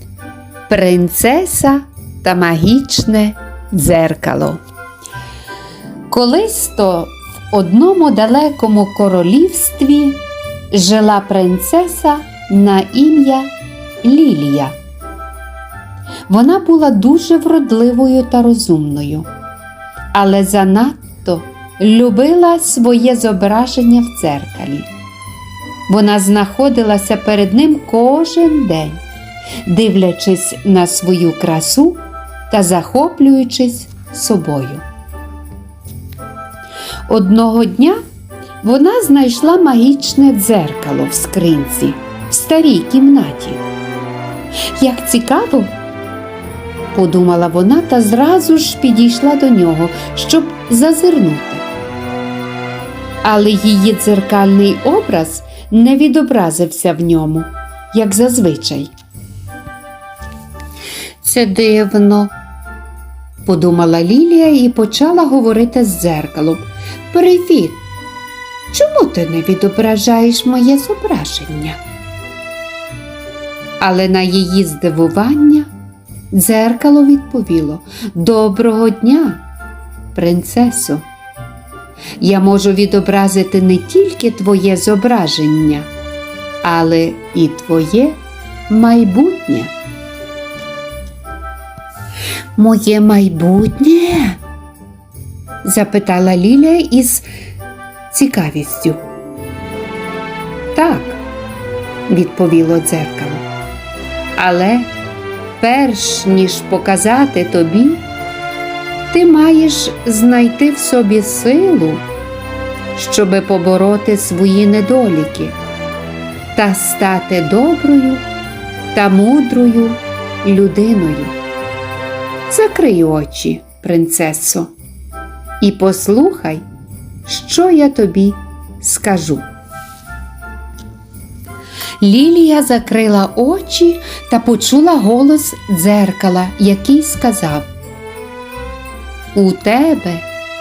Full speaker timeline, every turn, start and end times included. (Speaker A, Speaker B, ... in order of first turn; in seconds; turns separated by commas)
Speaker A: 0.7-4.6, Speaker A: 6.1-13.5, Speaker A: 14.0-14.7, Speaker A: 16.3-19.3, Speaker A: 20.1-24.9, Speaker A: 25.9-29.0, Speaker A: 29.6-34.8, Speaker A: 37.1-38.0, Speaker A: 38.6-43.6, Speaker A: 44.8-45.7, Speaker A: 46.9-51.6, Speaker A: 53.2-58.9, Speaker A: 61.2-62.3, Speaker A: 63.5-67.8, Speaker A: 68.7-71.8, Speaker A: 73.8-75.7, Speaker A: 76.3-79.4, Speaker A: 80.1-81.0, Speaker A: 82.2-85.9, Speaker A: 86.6-88.2, Speaker A: 88.7-89.7, Speaker A: 92.6-94.4, Speaker A: 95.6-97.2, Speaker A: 98.1-99.0, Speaker A: 100.7-101.2, Speaker A: 102.1-103.4, Speaker A: 104.4-104.9, Speaker A: 105.6-108.0, Speaker A: 109.1-112.0, Speaker A: 112.9-115.6, Speaker A: 116.5-118.2, Speaker A: 118.9-121.3, Speaker A: 122.5-124.7, Speaker A: 125.6-126.6, Speaker A: 127.2-129.4, Speaker A: 132.0-137.7, Speaker A: 139.3-140.3